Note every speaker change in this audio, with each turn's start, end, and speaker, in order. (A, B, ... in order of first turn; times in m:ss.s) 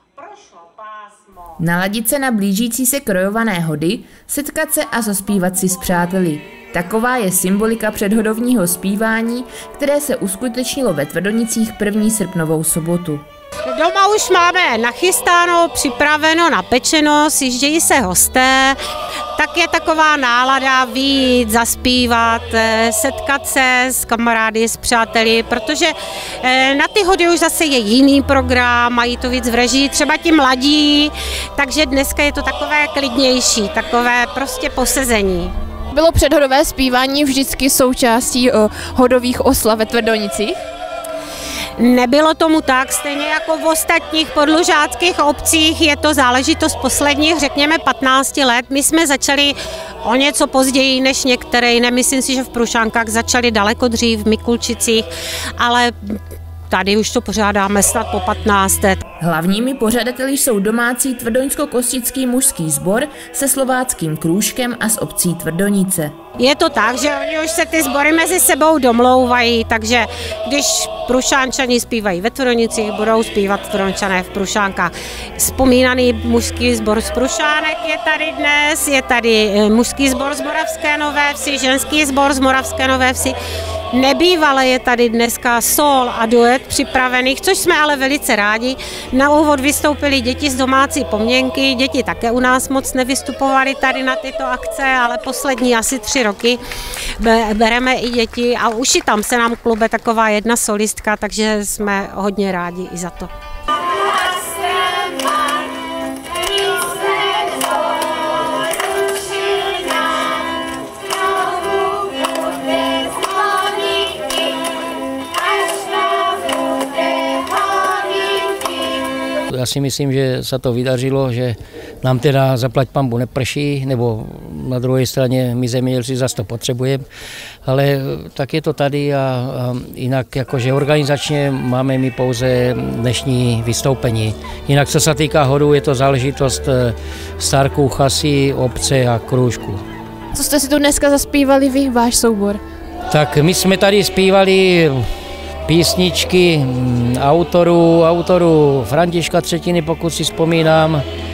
0:01.6-0:13.2 A
0:13.7-0:18.8 B
0:19.4-0:35.5 B
0:35.9-0:40.6 C
0:41.8-0:55.1 B
0:55.6-0:56.2 B
0:56.7-0:59.0 B
0:59.2-1:06.2 A
1:06.4-1:23.4 B
1:23.9-1:36.6 B
1:37.2-1:43.3 B
1:59.5-2:07.0 D
2:07.7-2:19.8 D
2:20.3-2:22.6 C
2:23.1-2:25.0 D
2:25.7-2:31.0 D